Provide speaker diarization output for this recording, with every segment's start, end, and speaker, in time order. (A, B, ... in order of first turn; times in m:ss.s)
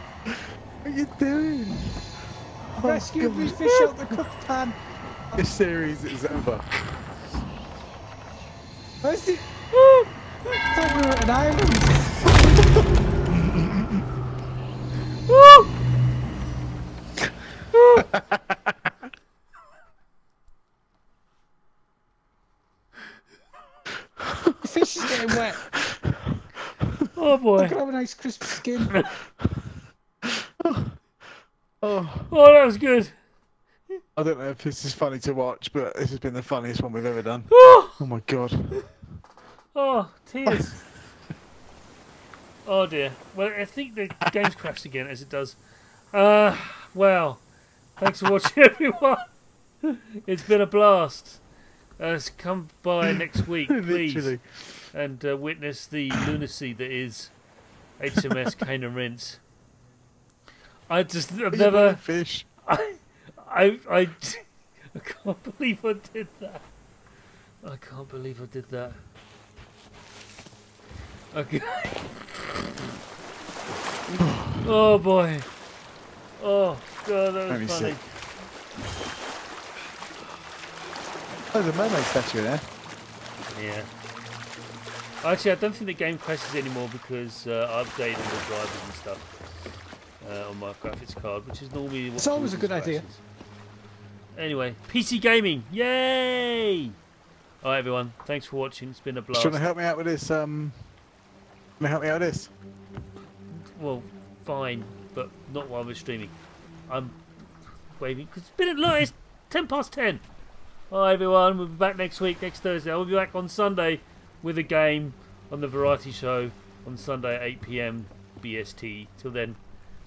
0:00.2-0:02.0 A
0:02.7-0:04.2 A
0:02.8-0:04.8 B
0:05.3-0:06.7 A
0:09.0-0:09.4 B
0:09.7-0:10.1 C
0:10.7-0:12.3 B
0:13.3-0:14.0 A
0:15.3-0:15.7 C
0:17.7-0:18.1 C
0:18.0-0:18.9 A
0:24.2-0:27.1 A
0:24.6-0:25.6 B
0:27.1-0:27.8 C
0:27.6-0:29.0 B
0:29.4-0:29.6 A
0:30.2-0:31.0 A
0:31.8-0:32.3 A
0:32.3-0:33.1 C
0:34.2-0:38.8 A
0:37.5-0:38.0 C
0:39.7-0:40.8 C
0:40.4-0:40.7 A
0:42.6-0:45.6 C
0:46.1-0:47.4 C
0:48.0-0:49.3 C
0:49.8-0:51.4 C
0:52.0-0:54.3 C
0:53.7-0:54.8 A
0:54.9-0:57.3 C
0:58.0-0:59.4 C
0:58.1-0:58.6 A
1:00.9-1:02.0 C
1:01.5-1:02.5 A
1:02.6-1:06.6 C
1:07.6-1:09.0 C
1:11.3-1:12.9 C
1:14.1-1:15.5 C
1:14.2-1:14.7 A
1:16.4-1:18.0 C
1:17.5-1:18.0 A
1:21.5-1:22.6 A
1:23.5-1:23.9 C
1:25.2-1:29.3 C
1:30.2-1:33.2 C
1:32.2-1:33.0 B
1:34.3-1:36.9 C
1:37.6-1:39.7 C
1:39.3-1:40.8 A
1:41.8-1:42.5 A
1:43.5-1:46.3 C
1:46.9-1:47.2 C
1:48.0-1:50.2 C
1:50.9-1:59.6 C